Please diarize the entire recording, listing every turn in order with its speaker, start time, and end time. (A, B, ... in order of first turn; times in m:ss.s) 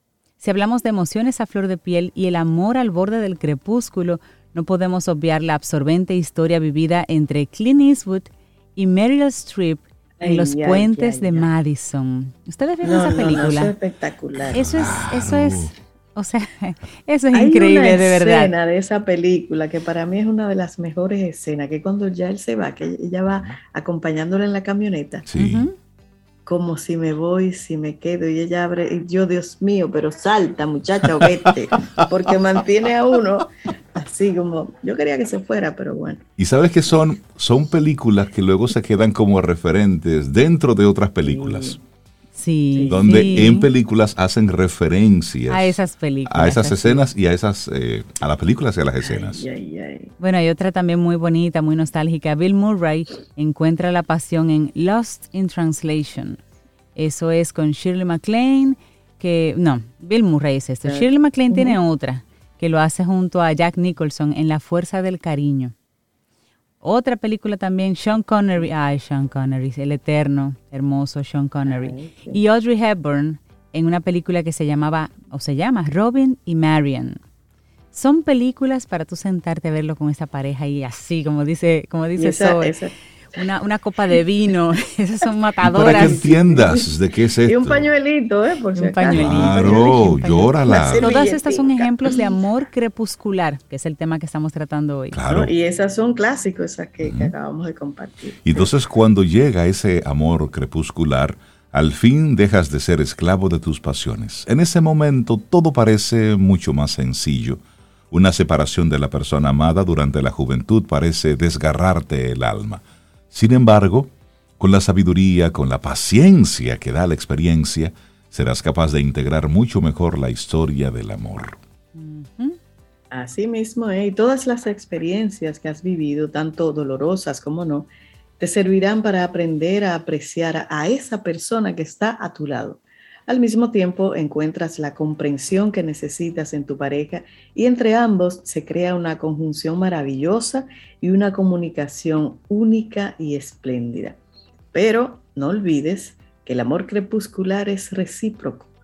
0:00.4-0:13.8 A
0:10.2-0:11.5 B
0:12.8-0:15.0 B
0:14.5-0:18.5 A
0:14.5-0:15.7 C
0:17.3-0:25.3 B
0:23.3-0:23.6 C
0:25.3-0:25.7 C
0:25.4-0:25.7 A
0:26.5-0:36.2 B
0:36.4-0:41.8 C
0:41.2-0:41.8 B
0:42.4-0:43.7 A
0:42.7-0:43.5 B
0:42.9-0:49.4 C
0:45.5-0:47.0 A
0:49.0-0:50.1 B
0:50.2-0:56.4 A
0:57.0-1:05.7 A
1:00.8-1:01.8 B
1:06.8-1:17.2 A
1:11.7-1:12.4 B
1:17.9-1:22.8 A
1:22.2-1:22.9 B
1:23.3-1:26.3 A
1:25.6-1:27.9 C
1:25.7-1:26.9 B
1:27.4-1:32.2 B
1:28.8-1:35.2 A
1:29.1-1:31.0 C
1:35.1-1:35.5 C
1:35.3-1:38.7 B
1:37.0-1:37.3 C
1:38.4-2:01.6 C
2:02.0-2:02.6 A
2:03.1-2:24.2 B
2:24.7-2:28.7 B